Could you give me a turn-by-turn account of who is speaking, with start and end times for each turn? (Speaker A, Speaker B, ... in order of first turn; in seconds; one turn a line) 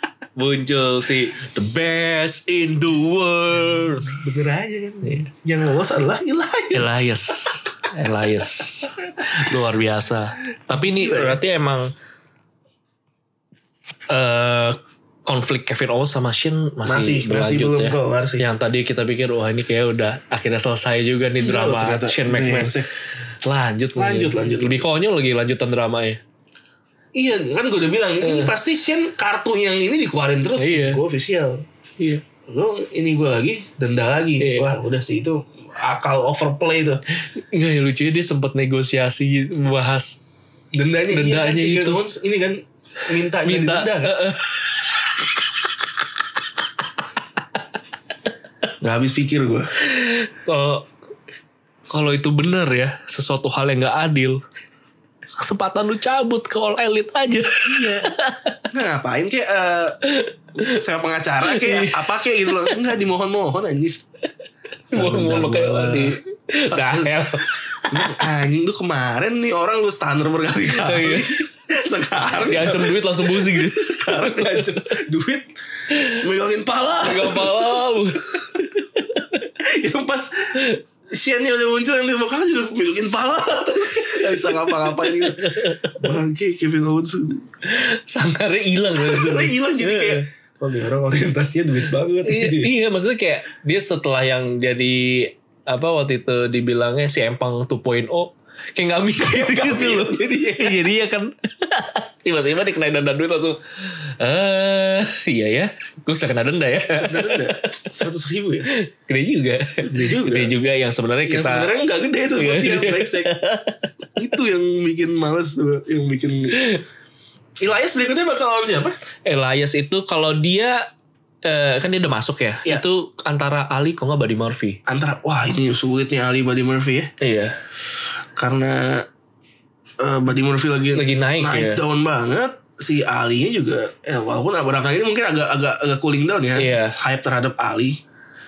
Speaker A: 0.4-4.2
Speaker B: 4.0-7.1
Speaker A: 5.0-5.3
Speaker A: 6.7-11.9
Speaker B: 10.8-11.4
Speaker A: 14.1-22.7
Speaker B: 16.9-18.4
Speaker B: 21.4-22.9
Speaker A: 23.4-26.2
Speaker B: 24.0-24.9
Speaker B: 27.1-31.6
Speaker A: 28.2-28.5
Speaker A: 30.6-31.0
Speaker B: 32.5-37.0
Speaker A: 34.4-34.7
Speaker A: 37.4-40.2
Speaker B: 40.7-44.2
Speaker A: 41.1-42.0
Speaker A: 43.5-45.2
Speaker B: 48.8-49.7
Speaker A: 49.9-50.9
Speaker A: 51.9-54.4
Speaker A: 55.4-58.7
Speaker B: 57.6-58.1
Speaker B: 58.7-60.0
Speaker A: 60.0-60.8
Speaker B: 60.6-64.0
Speaker A: 61.4-62.8
Speaker A: 64.9-68.3
Speaker B: 64.9-66.2
Speaker B: 66.7-75.5
Speaker A: 70.7-71.5
Speaker A: 72.3-74.8
Speaker A: 75.9-76.2
Speaker B: 76.1-77.9
Speaker A: 77.0-79.5
Speaker B: 79.6-87.5
Speaker A: 84.0-86.1
Speaker A: 87.6-90.2
Speaker B: 88.9-92.7
Speaker A: 92.2-108.0
Speaker B: 99.2-100.8
Speaker B: 106.9-108.7
Speaker A: 108.7-111.7
Speaker B: 109.9-110.5
Speaker B: 111.2-113.3
Speaker A: 112.4-114.1
Speaker B: 114.2-116.6
Speaker A: 116.5-116.8
Speaker B: 117.6-119.0
Speaker A: 119.3-120.8
Speaker A: 121.5-124.8
Speaker B: 124.9-127.1
Speaker A: 127.2-127.6
Speaker B: 128.4-129.1
Speaker B: 130.0-138.0
Speaker A: 130.9-131.8
Speaker A: 136.6-136.9